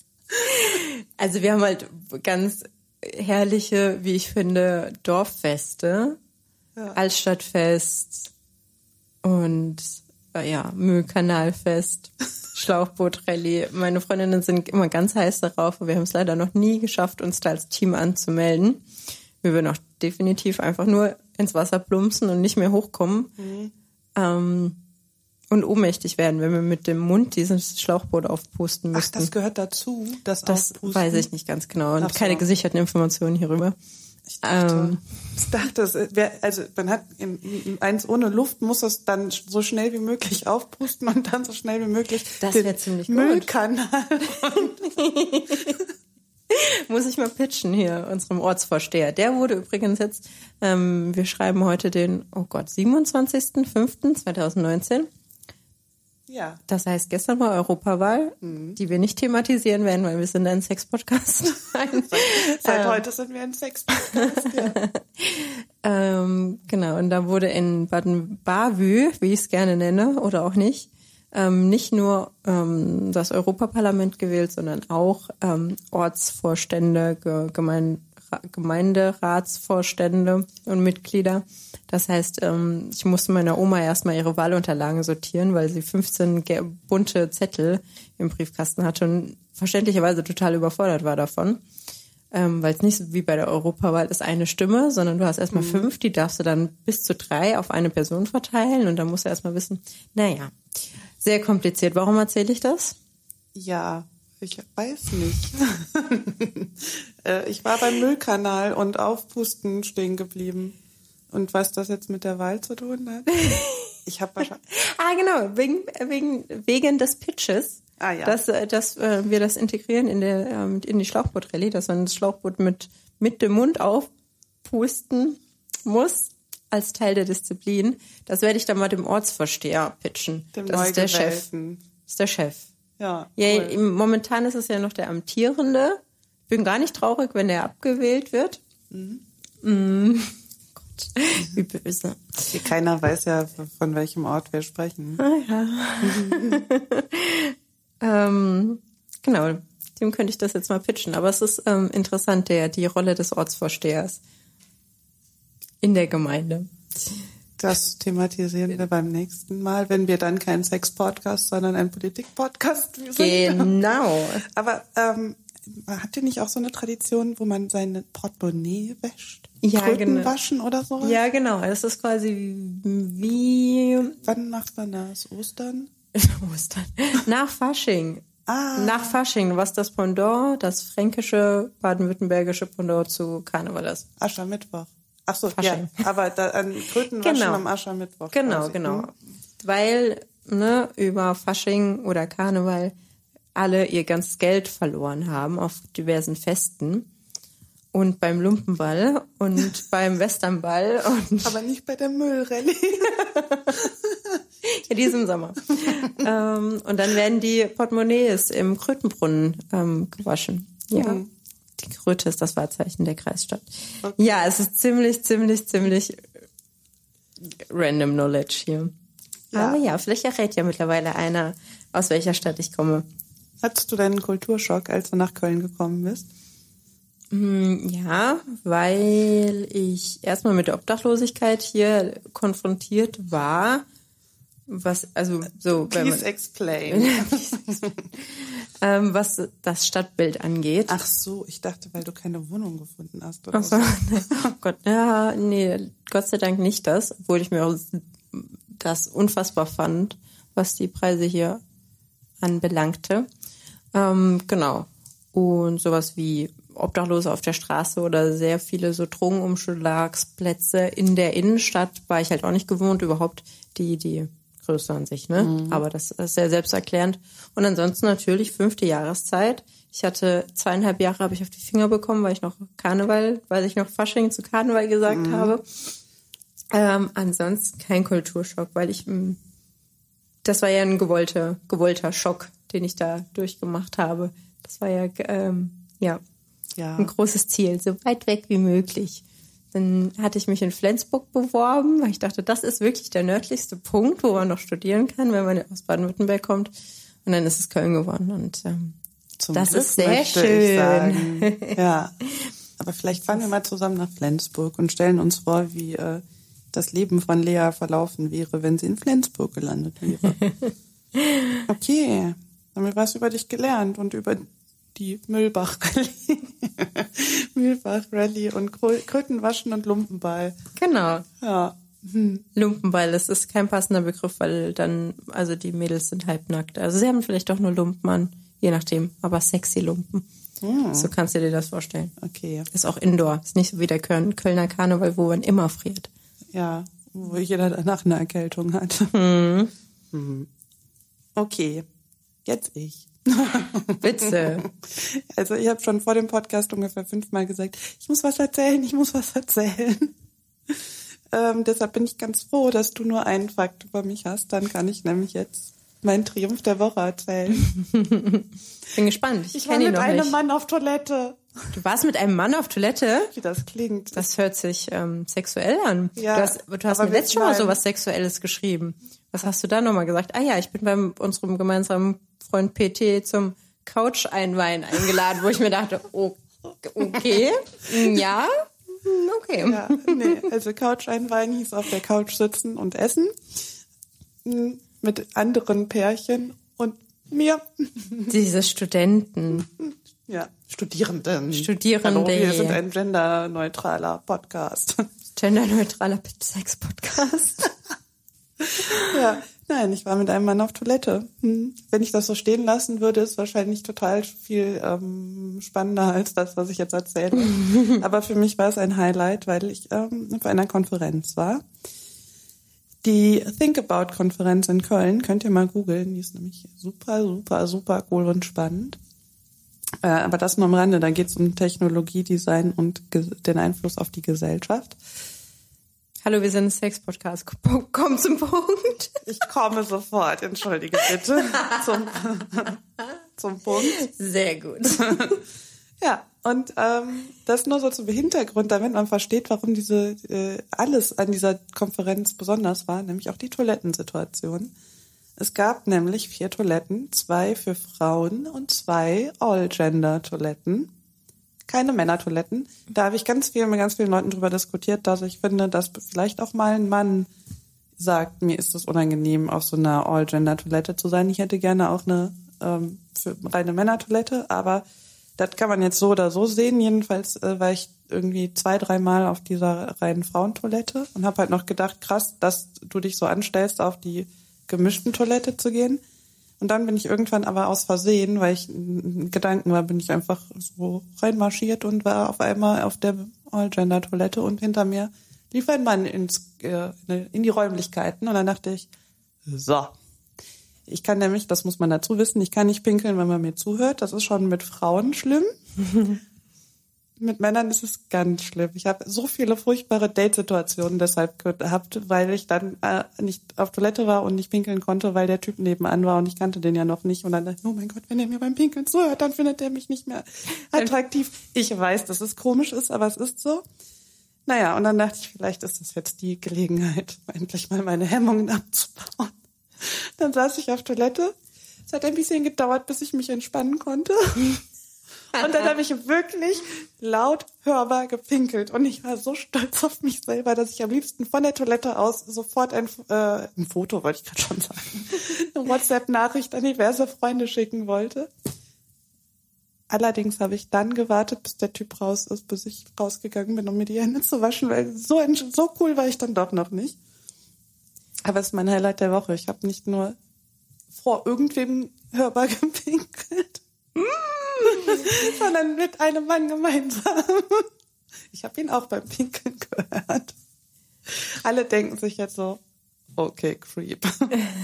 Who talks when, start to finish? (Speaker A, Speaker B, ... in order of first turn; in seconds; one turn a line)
Speaker A: 0.4-6.2
Speaker A: 6.9-8.3
Speaker A: 9.2-18.8
Speaker A: 19.4-23.3
Speaker B: 23.4-23.7
Speaker A: 24.1-24.8
Speaker A: 25.5-29.3
Speaker B: 28.9-31.3
Speaker A: 30.5-33.7
Speaker B: 32.0-32.4
Speaker B: 34.3-45.9
Speaker A: 34.4-35.0
Speaker A: 42.4-43.5
Speaker A: 44.5-45.8
Speaker A: 46.5-55.1
Speaker B: 56.3-56.6
Speaker A: 56.7-63.0
Speaker B: 58.4-58.8
Speaker B: 61.9-64.8
Speaker A: 64.4-91.6
Speaker A: 92.3-100.5
Speaker B: 95.5-95.9
Speaker A: 101.2-103.0
Speaker B: 103.5-110.8
Speaker B: 111.3-114.6
Speaker A: 113.3-113.9
Speaker A: 114.7-124.1
Speaker B: 118.0-118.4
Speaker A: 124.6-131.4
Speaker B: 130.5-131.8
Speaker A: 132.0-132.7
Speaker B: 133.0-133.8
Speaker A: 133.4-138.6
Speaker B: 138.9-139.2
Speaker A: 139.6-140.3
Speaker A: 140.9-142.5
Speaker B: 142.5-145.2
Speaker A: 145.2-154.2
Speaker B: 146.0-146.6
Speaker A: 155.8-157.2
Speaker B: 157.6-163.8
Speaker A: 163.2-164.4
Speaker B: 164.4-171.2
Speaker A: 169.6-170.3
Speaker A: 171.0-174.2
Speaker B: 174.2-175.9
Speaker A: 176.1-184.1
Speaker B: 178.4-179.2
Speaker B: 184.2-189.1
Speaker A: 185.5-186.0
Speaker A: 187.2-187.6
Speaker A: 188.3-192.9
Speaker A: 193.6-197.1
Speaker A: 197.9-201.5
Speaker B: 201.4-203.2
Speaker A: 203.0-203.8
Speaker B: 203.8-204.4
Speaker A: 204.6-211.2
Speaker B: 205.9-206.2
Speaker B: 210.9-211.3
Speaker A: 211.8-216.3
Speaker B: 214.0-214.3
Speaker A: 217.4-218.9
Speaker B: 219.5-219.8
Speaker A: 219.5-223.0
Speaker B: 223.6-226.3
Speaker A: 227.3-233.8
Speaker A: 234.7-236.2
Speaker B: 235.7-238.1
Speaker A: 236.9-237.6
Speaker A: 238.2-241.0
Speaker B: 240.9-244.5
Speaker A: 243.5-251.6
Speaker A: 252.4-253.3
Speaker A: 253.9-275.6
Speaker B: 265.4-265.8
Speaker B: 275.1-275.5
Speaker A: 276.7-279.4
Speaker A: 280.4-286.2
Speaker B: 286.8-287.1
Speaker A: 287.0-296.7
Speaker A: 297.2-298.9
Speaker B: 299.4-302.1
Speaker A: 299.5-301.7
Speaker B: 302.8-310.4
Speaker A: 310.4-311.6
Speaker B: 311.7-320.6
Speaker A: 320.8-321.2
Speaker B: 321.4-322.4
Speaker A: 322.5-330.2
Speaker B: 330.6-331.1
Speaker A: 330.9-332.1
Speaker B: 332.2-332.7
Speaker A: 332.7-336.1
Speaker B: 336.5-339.1
Speaker A: 339.1-339.7
Speaker B: 340.1-340.5
Speaker B: 341.4-341.9
Speaker B: 342.4-350.1
Speaker A: 344.0-344.6
Speaker B: 350.7-357.7
Speaker A: 357.8-360.3
Speaker B: 359.5-361.4
Speaker A: 361.7-363.3
Speaker B: 363.3-364.2
Speaker A: 364.1-380.4
Speaker B: 366.2-367.8
Speaker B: 377.0-377.4
Speaker B: 379.6-383.7
Speaker B: 384.4-388.3
Speaker A: 388.3-389.6
Speaker B: 389.5-395.0
Speaker A: 391.5-392.8
Speaker A: 395.4-397.7
Speaker B: 398.6-411.6
Speaker A: 407.5-408.0
Speaker B: 413.0-419.0
Speaker B: 420.0-425.0
Speaker A: 426.2-429.3
Speaker B: 429.2-432.8
Speaker B: 433.4-434.0
Speaker A: 433.8-435.4
Speaker B: 435.0-435.3
Speaker B: 436.0-444.7
Speaker B: 445.4-450.9
Speaker B: 451.6-457.3
Speaker B: 458.0-464.8
Speaker B: 465.4-476.0
Speaker B: 476.6-488.9
Speaker B: 489.4-489.9
Speaker B: 490.9-495.5
Speaker B: 497.2-513.6
Speaker B: 514.5-521.3
Speaker B: 521.9-524.6
Speaker B: 525.3-538.3
Speaker B: 539.9-547.0
Speaker B: 548.2-550.2
Speaker B: 550.9-553.6
Speaker A: 554.0-555.1
Speaker B: 554.6-557.7
Speaker B: 558.3-560.3
Speaker B: 561.1-562.6
Speaker B: 563.1-564.4